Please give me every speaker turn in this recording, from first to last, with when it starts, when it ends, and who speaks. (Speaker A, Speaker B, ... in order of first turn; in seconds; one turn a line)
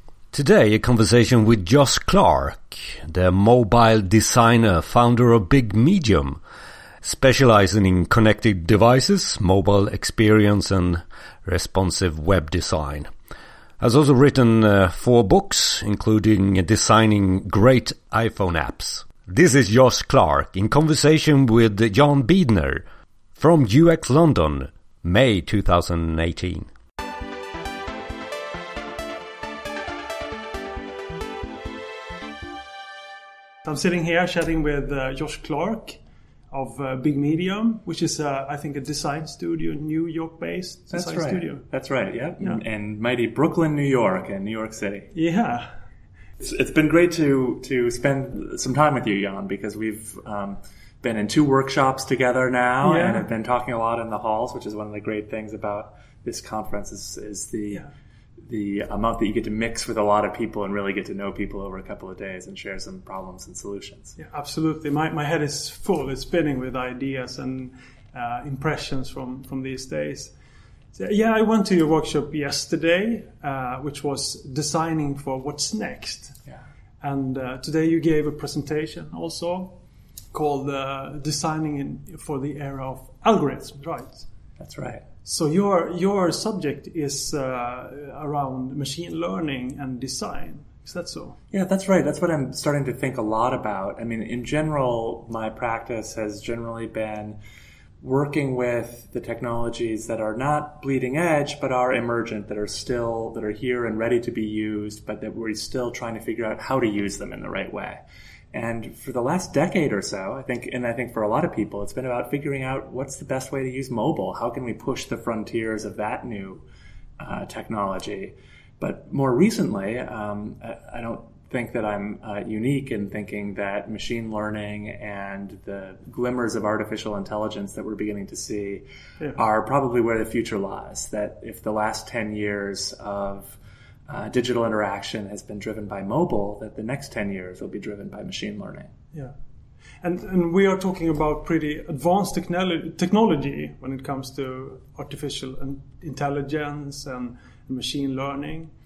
Speaker A: 0.3-6.4
Speaker A: 7.0-13.1
Speaker A: 13.8-22.8
Speaker A: 23.4-26.7
Speaker B: 33.6-36.0
Speaker B: 36.5-41.6
Speaker C: 40.9-45.1
Speaker B: 45.1-45.7
Speaker C: 46.4-57.9
Speaker B: 52.8-53.3
Speaker C: 58.4-64.2
Speaker B: 64.2-70.3
Speaker B: 70.9-76.4
Speaker B: 77.0-79.8
Speaker B: 80.3-84.2
Speaker C: 84.6-85.1
Speaker B: 85.2-91.4
Speaker C: 91.5-97.4
Speaker C: 98.0-108.0
Speaker C: 108.5-116.7
Speaker C: 117.2-128.8
Speaker C: 129.4-138.9
Speaker B: 140.0-148.7